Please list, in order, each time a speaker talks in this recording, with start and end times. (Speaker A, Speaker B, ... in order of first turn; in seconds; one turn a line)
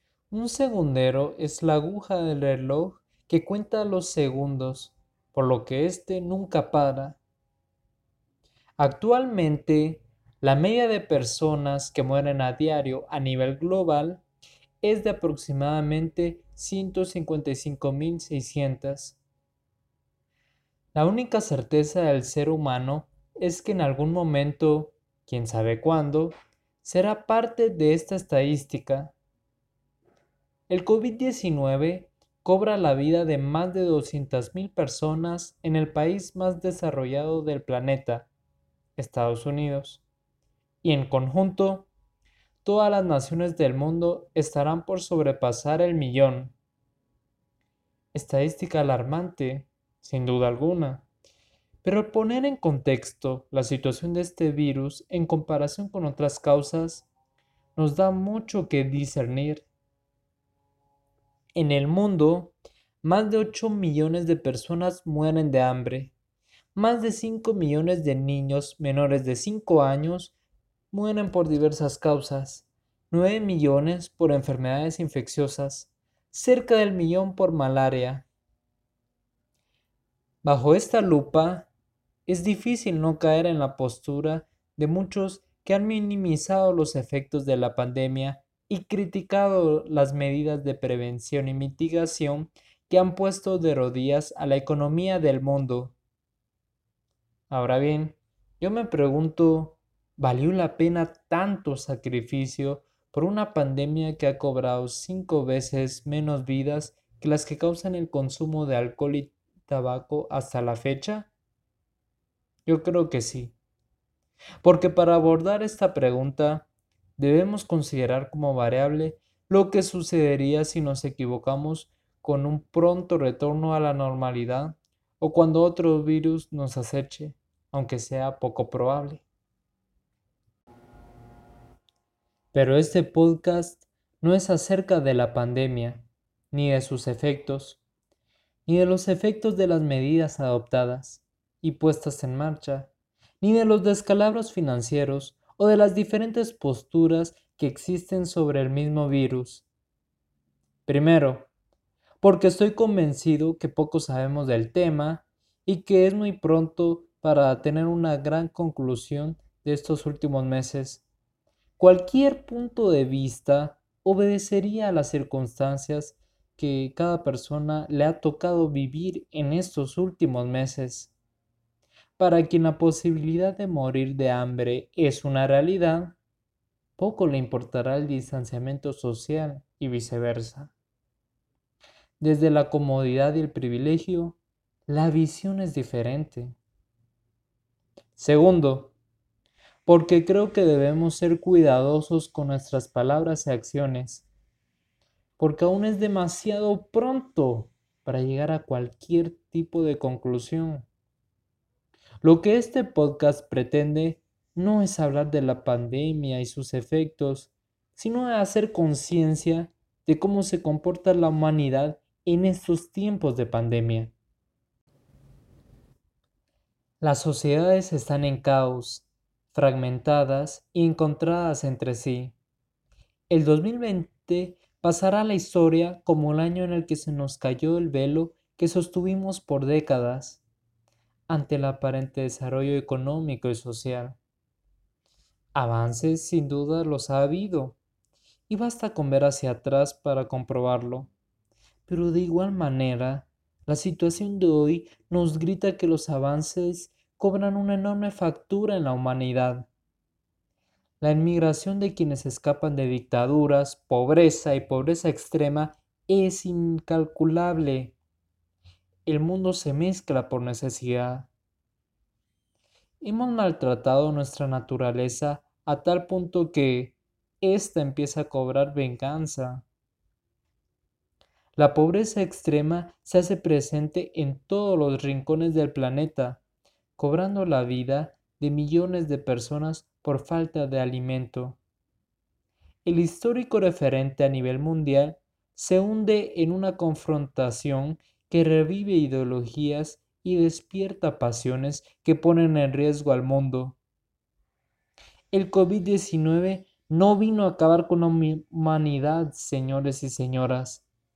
Speaker A: 0.3-7.2
Speaker A: 8.8-14.2
Speaker A: 14.8-19.2
Speaker A: 20.9-29.1
Speaker A: 30.7-38.3
Speaker A: 39.0-40.0
Speaker A: 40.8-41.9
Speaker A: 42.6-46.5
Speaker A: 48.1-51.1
Speaker A: 51.8-57.1
Speaker A: 57.8-59.7
Speaker A: 61.5-66.1
Speaker A: 66.8-70.3
Speaker A: 70.9-78.3
Speaker A: 80.4-81.7
Speaker A: 82.3-96.0
Speaker A: 97.5-111.3
Speaker A: 112.7-113.5
Speaker A: 114.6-129.2
Speaker A: 132.5-137.8
Speaker A: 138.7-149.7
Speaker A: 150.9-151.5
Speaker A: 152.2-161.1
Speaker A: 161.8-171.1
Speaker A: 172.2-176.2
Speaker A: 177.0-180.7
Speaker A: 182.2-186.6
Speaker A: 188.2-188.9
Speaker A: 189.9-194.3
Speaker A: 195.4-200.9
Speaker A: 202.2-214.1
Speaker A: 217.0-222.4
Speaker A: 223.3-230.4
Speaker A: 231.3-234.2
Speaker A: 235.6-237.8
Speaker A: 238.5-241.1
Speaker A: 241.9-249.7
Speaker A: 251.0-258.0
Speaker A: 259.1-261.3
Speaker A: 263.0-269.6
Speaker A: 271.6-276.4
Speaker A: 277.0-281.6
Speaker A: 282.9-293.8
Speaker A: 295.3-300.9